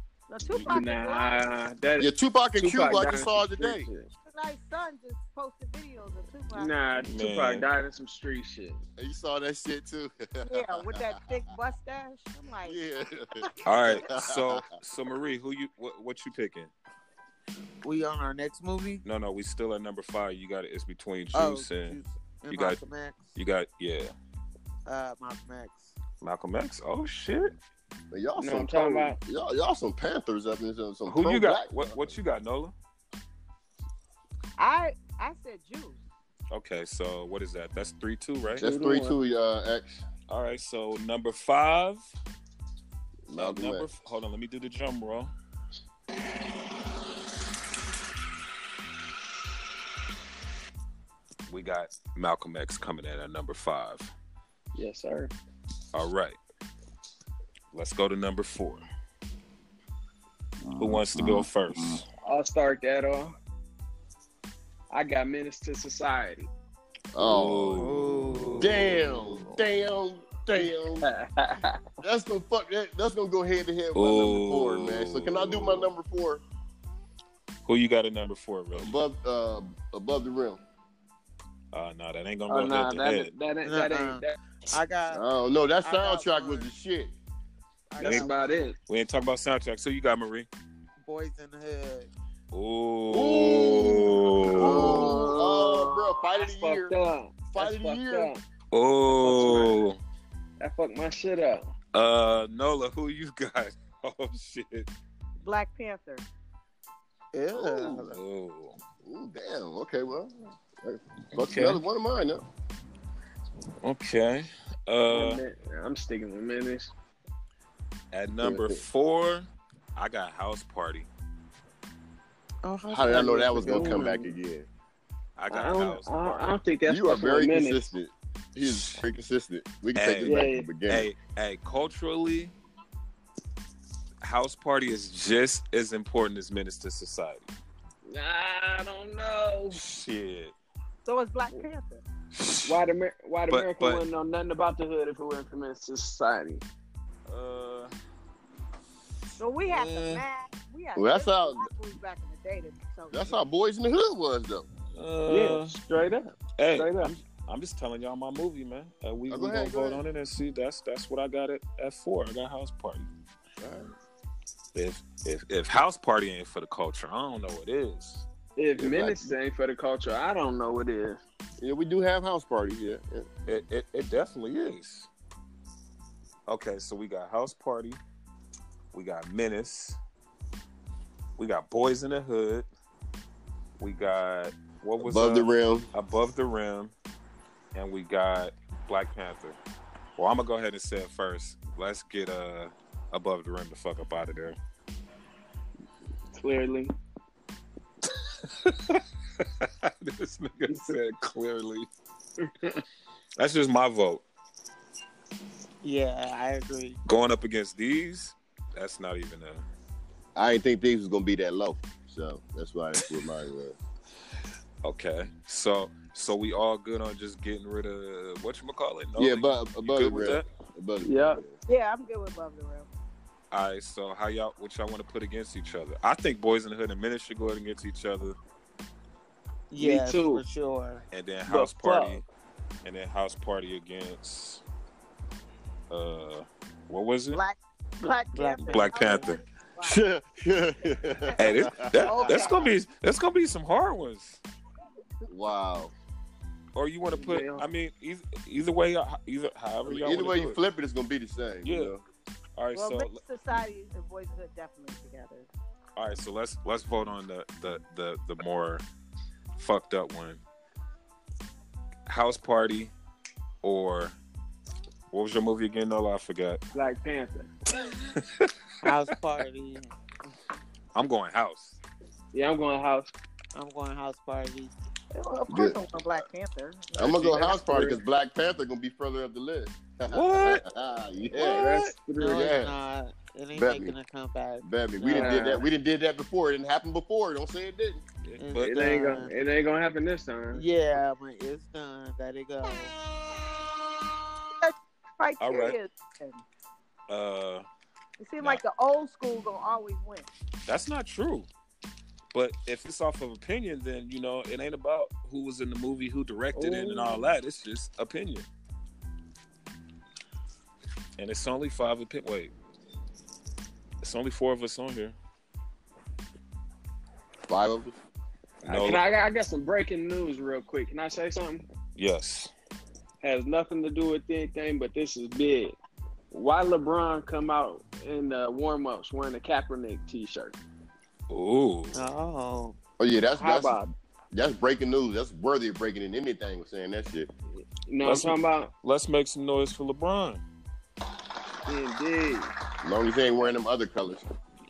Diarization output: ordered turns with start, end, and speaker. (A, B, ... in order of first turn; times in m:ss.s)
0:00.3-0:01.4 A
0:00.6-0:04.1 B
0:02.0-0:03.9 C
0:04.3-0:06.7 A
0:06.5-0:08.8 B
0:07.0-0:07.7 D
0:09.0-0:11.1 C
0:10.4-0:12.8 A
0:12.7-0:14.6 C
0:13.7-0:16.7 D
0:17.8-0:19.0 E
0:19.0-0:22.8 D
0:21.3-0:23.4 E
0:23.4-0:24.1 D
0:24.9-0:25.9 E
0:26.2-0:27.5 D
0:28.1-0:32.1 C
0:28.4-0:29.2 B
0:31.1-0:32.7 D
0:34.6-0:36.0 A
0:36.5-0:38.7 D
0:38.6-0:39.2 B
0:38.6-0:40.0 C
0:40.3-0:42.0 D
0:43.3-0:43.9 C
0:43.4-0:45.3 D
0:51.5-0:54.1 D
0:54.8-0:55.3 B
0:55.9-0:56.4 D
0:57.7-0:58.8 D
1:00.8-1:02.0 D
1:02.2-1:03.3 B
1:04.9-1:06.5 B
1:07.1-1:07.9 C
1:07.2-1:09.0 D
1:07.8-1:09.1 E
1:08.6-1:11.1 C
1:11.0-1:11.8 B
1:12.0-1:16.4 C
1:14.0-1:15.9 D
1:17.6-1:19.0 D
1:18.7-1:20.6 C
1:21.7-1:23.3 D
1:22.5-1:24.4 B
1:23.6-1:25.2 E
1:25.1-1:27.2 C
1:25.8-1:26.7 E
1:27.9-1:28.7 E
1:28.0-1:28.8 B
1:28.0-1:28.3 D
1:28.9-1:30.5 D
1:31.0-1:32.1 E
1:32.5-1:35.1 D
1:33.1-1:37.0 C
1:34.6-1:35.1 E
1:34.7-1:38.4 B
1:37.5-1:38.3 C
1:38.7-1:40.0 D
1:39.1-1:39.8 B
1:40.6-1:41.7 B
1:41.9-1:44.9 D
1:45.4-1:46.3 A
1:47.3-1:48.1 E
1:47.5-1:48.2 C
1:48.1-1:48.8 D
1:49.0-1:52.4 C
1:51.4-1:51.8 D
1:53.8-1:55.4 D
1:55.1-1:56.9 B
1:58.1-2:01.1 D
1:58.4-1:58.8 C
2:02.6-2:04.1 E
2:02.9-2:04.7 C
2:03.6-2:04.3 B
2:05.4-2:06.4 D
2:05.5-2:07.9 B
2:06.9-2:11.1 C
2:08.6-2:09.0 D
2:10.0-2:12.5 D
2:10.2-2:10.7 B
2:14.2-2:17.5 D
2:18.1-2:19.8 B
2:19.7-2:20.6 D
2:21.1-2:22.0 A
2:22.3-2:22.8 D
2:22.6-2:26.6 B
2:23.5-2:24.0 D
2:27.3-2:27.9 D
2:29.4-2:33.4 A
2:29.6-2:30.2 D
2:31.0-2:31.7 C
2:33.1-2:34.7 C
2:35.0-2:35.8 D
2:35.3-2:37.1 B
2:36.6-2:43.1 D
2:39.3-2:40.0 C
2:43.6-2:43.9 C
2:44.7-2:48.3 D
2:48.6-2:51.2 B
2:48.8-2:49.3 C
2:51.6-2:53.3 C
2:53.5-2:55.1 D
2:56.5-2:58.0 D
2:58.9-3:00.0 D
3:01.4-3:02.7 D
3:03.8-3:06.9 D
3:05.0-3:05.9 C
3:07.7-3:09.6 D
3:10.2-3:14.6 D
3:16.3-3:16.9 B
3:18.5-3:21.9 D
3:20.7-3:21.0 B
3:22.4-3:22.8 B
3:23.4-3:24.2 D
3:25.8-3:27.0 E
3:27.1-3:29.6 D
3:30.4-3:33.8 C
3:34.8-3:40.4 D
3:39.2-3:41.6 C
3:41.0-3:41.4 B
3:41.7-3:42.9 A
3:43.5-3:48.4 D
3:49.7-3:51.0 E
3:49.8-3:50.4 B
3:51.1-3:52.2 D
3:51.5-3:52.2 B
3:52.8-3:54.6 D
3:55.9-3:57.4 D
3:57.3-4:00.0 A
3:58.3-3:59.3 E
3:58.7-3:59.4 D
3:59.8-4:02.5 C
4:01.3-4:02.7 A
4:01.4-4:04.4 D
4:05.3-4:05.9 C
4:06.8-4:10.6 D
4:07.1-4:07.7 B
4:09.8-4:12.0 C
4:11.6-4:11.9 D
4:12.6-4:13.2 D
4:12.7-4:15.5 A
4:16.0-4:18.8 D
4:19.6-4:20.4 D
4:22.1-4:22.9 D
4:23.6-4:24.2 D
4:25.1-4:26.6 D
4:26.7-4:27.5 B
4:27.8-4:28.5 D
4:28.8-4:29.9 E
4:31.0-4:31.8 D
4:32.3-4:33.1 B
4:33.5-4:34.7 E
4:35.1-4:38.0 A
4:35.5-4:35.8 C
4:37.0-4:42.8 C
4:40.1-4:40.6 D
4:41.3-4:42.5 B
4:42.2-4:45.5 E
4:43.5-4:44.0 C
4:44.6-4:48.0 C
4:45.0-4:45.7 B
4:48.2-4:48.8 D
4:48.4-4:49.3 E
4:48.6-4:50.6 B
4:50.5-4:52.9 E
4:54.6-4:56.4 A
4:55.4-4:55.8 D
4:57.1-4:57.6 D
4:58.2-5:00.3 A
5:00.7-5:01.5 D
5:02.3-5:08.5 D
5:06.5-5:07.3 B
5:11.2-5:12.5 D
5:14.0-5:15.2 D
5:17.5-5:18.0 C
5:18.6-5:19.0 D
5:18.7-5:21.7 B
5:22.0-5:22.5 D
5:23.2-5:25.8 B
5:26.3-5:30.6 B
5:31.3-5:32.1 D
5:31.9-5:32.8 E
5:33.0-5:33.8 C
5:33.4-5:33.9 B
5:34.3-5:37.3 C
5:37.9-5:38.7 B
5:38.0-5:40.4 D
5:41.7-5:42.5 B
5:42.8-5:44.2 C